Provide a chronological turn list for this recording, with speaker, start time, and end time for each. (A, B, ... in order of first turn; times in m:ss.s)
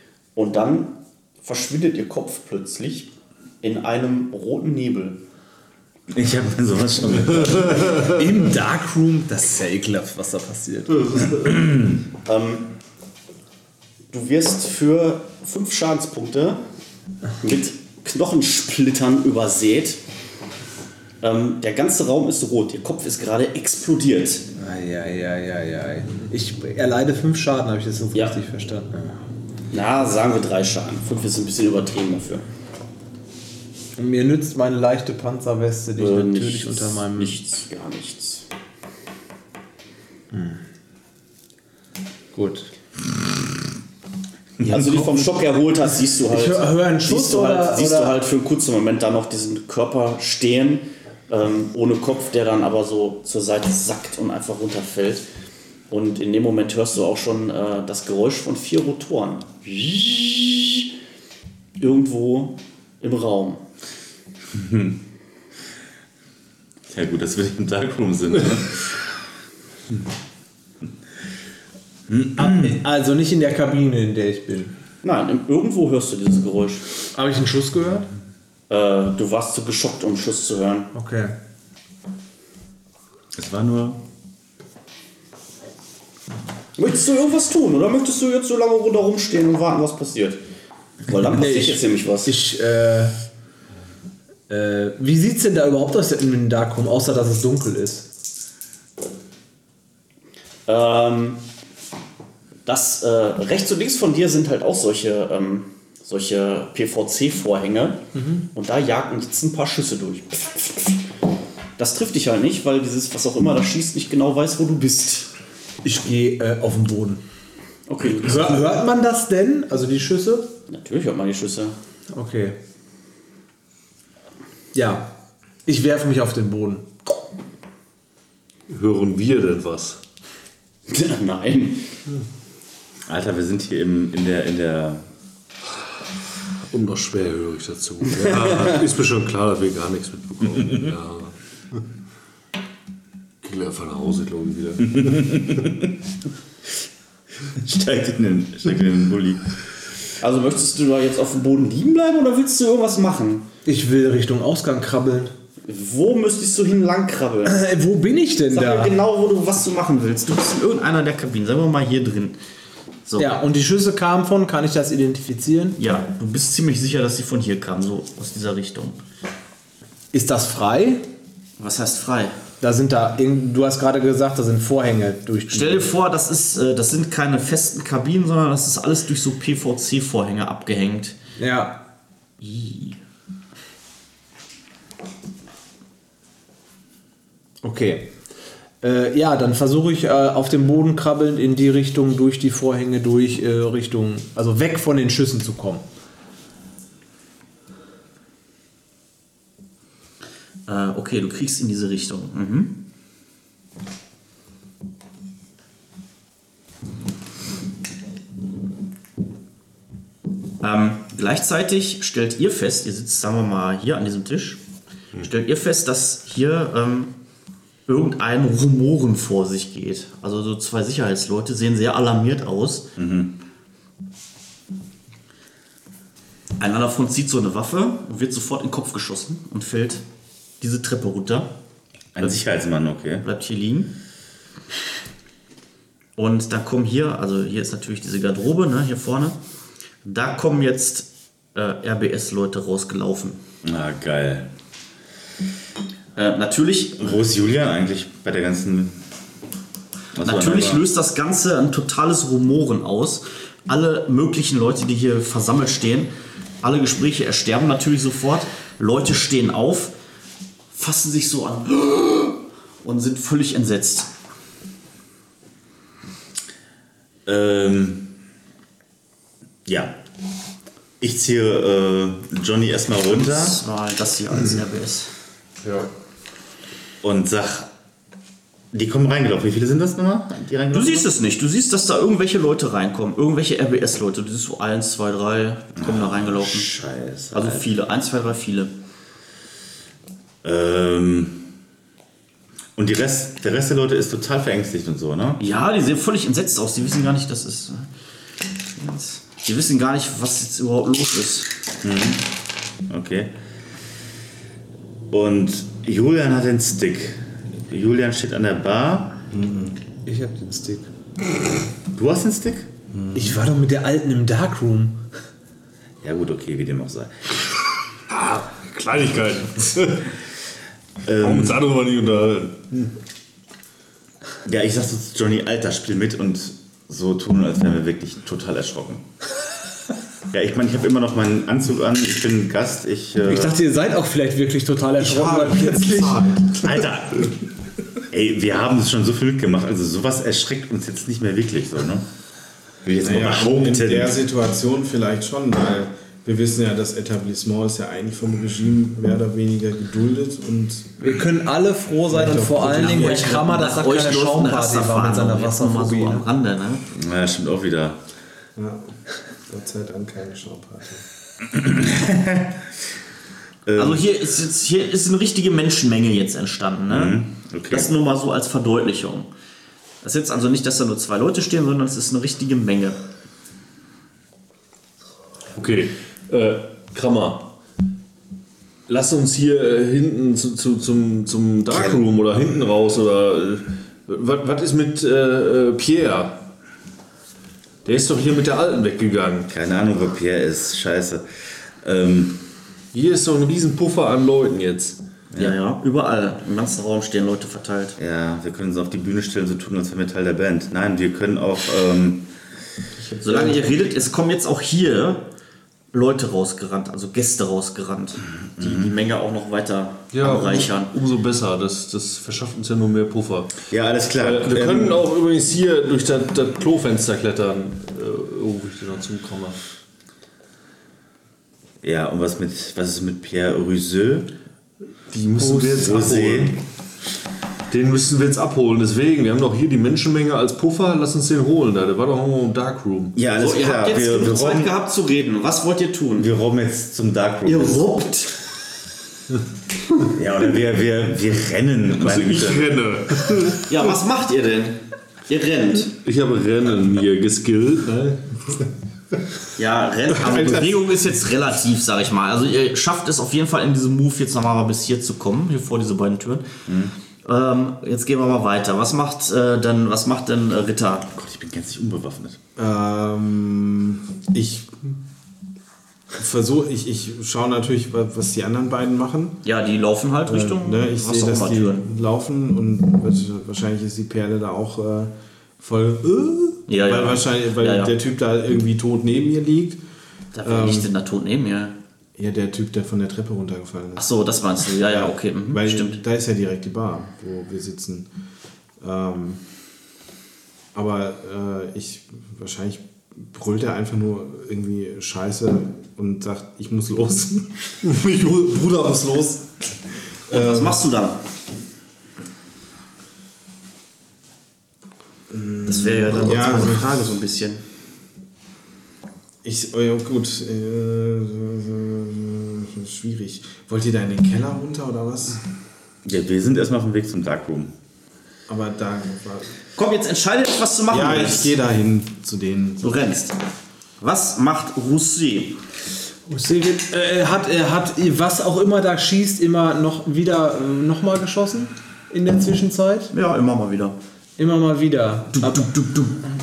0:00.4-0:03.1 A
0:03.6-0:05.2 A
0:06.1-0:08.1 B
0:08.0-0:11.3 C
0:11.0-0:11.6 D
0:12.2-0:12.7 A
0:14.1-0:16.6 A
0:17.4-0:20.0 A
0:21.2-0:24.5 A
0:24.6-0:29.2 C
0:29.7-0:32.4 A
0:34.0-0:37.4 C
0:36.0-0:38.5 A
0:40.3-0:40.6 C
0:42.3-0:42.7 C
0:44.6-0:45.2 B
0:44.6-0:55.3 A
0:46.3-0:48.2 C
0:55.9-1:00.9 A
1:01.8-1:03.6 A
1:04.5-1:05.0 B
1:06.9-1:09.0 B
1:12.1-1:12.8 B
1:12.4-1:14.8 C
1:15.0-1:16.8 A
1:17.1-1:18.1 C
1:18.7-1:20.9 A
1:20.9-1:21.4 C
1:23.3-1:24.0 B
1:26.8-1:30.4 A
1:31.1-1:32.3 A
1:31.3-1:33.2 C
1:34.5-1:38.1 C
1:40.7-1:41.4 A
1:42.7-1:51.0 A
1:48.2-1:48.5 C
1:51.8-1:55.3 A
1:55.8-1:57.2 C
1:57.9-1:58.8 A
1:58.2-2:00.5 C
2:00.7-2:01.8 A
2:02.1-2:02.6 C
2:04.7-2:05.1 C
2:05.7-2:07.0 C
2:08.7-2:10.0 D
2:10.9-2:11.9 A
2:13.1-2:15.0 B
2:16.7-2:21.8 D
2:23.4-2:25.3 D
2:25.0-2:25.9 B
2:27.6-2:29.5 B
2:30.2-2:33.5 A
2:33.6-2:35.3 C
2:35.6-2:37.6 A
2:37.5-2:39.0 C
2:38.5-2:42.4 A
2:43.1-2:43.4 A
2:43.2-2:45.8 C
2:45.8-2:49.0 A
2:50.1-2:51.1 C
2:51.6-2:52.4 A
2:52.6-2:55.9 C
2:55.5-3:01.2 A
3:01.4-3:01.8 C
3:02.4-3:03.0 A
3:07.6-3:08.1 C
3:08.8-3:15.8 C
3:20.7-3:22.8 A
3:30.6-3:34.6 A
3:35.2-3:37.1 A
3:37.9-3:42.9 A
3:43.0-3:43.3 B
3:46.6-3:50.0 A
3:50.6-3:51.5 A
3:52.2-3:53.2 B
3:53.2-3:53.9 A
3:56.2-3:59.4 A
4:00.0-4:03.4 A
4:03.6-4:04.5 B
4:06.2-4:07.1 A
4:07.0-4:09.0 B
4:10.2-4:10.8 B
4:10.2-4:16.1 A
4:16.6-4:19.9 A
4:20.7-4:24.1 A
4:27.3-4:28.1 B
4:29.7-4:30.0 B
4:31.0-4:33.6 B
4:33.0-4:35.1 A
4:35.6-4:35.9 D
4:37.0-4:37.7 B
4:38.7-4:41.1 B
4:40.7-4:46.7 A
4:45.8-4:47.7 B
4:47.3-4:48.7 A
4:50.4-4:51.4 B
4:52.8-4:55.4 B
4:55.4-4:57.9 A
4:58.7-5:01.5 A
5:01.8-5:02.2 B
5:02.9-5:03.3 B
5:05.1-5:09.2 B
5:09.3-5:09.8 E
5:10.0-5:10.9 C
5:11.9-5:12.7 B
5:12.9-5:13.4 E
5:13.1-5:15.0 C
5:16.0-5:17.2 B
5:18.1-5:20.1 D
5:21.0-5:21.6 B
5:21.2-5:22.9 D
5:24.4-5:29.0 B
5:30.3-5:33.6 B
5:33.2-5:36.4 C
5:35.0-5:36.8 E
5:36.6-5:37.4 B
5:38.1-5:42.1 B
5:42.8-5:44.1 B
5:43.0-5:51.0 E
5:51.0-5:56.3 C
5:52.1-5:53.3 E
5:52.7-5:56.8 A
5:56.9-5:58.0 B
5:58.6-5:59.0 E
5:59.5-6:01.0 E
6:01.5-6:02.6 B
6:03.7-6:04.0 B
6:03.8-6:09.3 A
6:06.9-6:07.9 B
6:10.0-6:13.0 A
6:15.6-6:17.6 D
6:18.9-6:26.5 D
6:21.7-6:22.0 B
6:27.8-6:29.5 D
6:29.5-6:31.3 B
6:31.8-6:32.4 B
6:32.9-6:35.0 D
6:35.4-6:38.0 A
6:38.0-6:42.2 B
6:43.0-6:45.3 A
6:45.9-6:50.9 A
6:48.6-6:48.9 B
6:50.1-6:53.5 D
6:53.7-6:55.0 B
6:54.2-6:59.7 D
7:01.8-7:04.3 B
7:05.1-7:06.6 D
7:05.4-7:06.6 B
7:07.7-7:13.2 D
7:13.2-7:14.7 B
7:13.3-7:16.3 A
7:16.2-7:17.9 B
7:17.4-7:18.4 A
7:20.0-7:22.8 B
7:22.0-7:23.8 D
7:23.7-7:26.0 A
7:25.9-7:28.7 D
7:29.6-7:36.5 A
7:30.4-7:30.7 E
7:36.7-7:36.9 B
7:37.2-7:41.1 A
7:41.1-7:42.4 B
7:42.6-7:44.8 E
7:46.2-7:49.4 E
7:49.4-7:51.9 A
7:50.3-7:59.8 E
7:56.7-7:57.9 A
8:00.3-8:01.8 A
8:00.4-8:00.9 E
8:02.2-8:04.0 E
8:04.0-8:06.0 A
8:04.8-8:08.1 E
8:08.8-8:09.4 E
8:10.7-8:17.8 E
8:17.8-8:19.4 D
8:20.3-8:20.8 E
8:20.3-8:21.2 A
8:25.3-8:27.2 E
8:25.7-8:27.6 A
8:29.4-8:35.4 E
8:36.0-8:37.7 B
8:38.5-8:39.6 E
8:39.8-8:41.6 A
8:40.9-8:43.0 E
8:42.8-8:43.4 A
8:44.0-8:45.6 A
8:46.3-8:53.1 C
8:53.1-8:54.0 A
8:54.4-8:55.7 C
8:55.4-8:56.2 A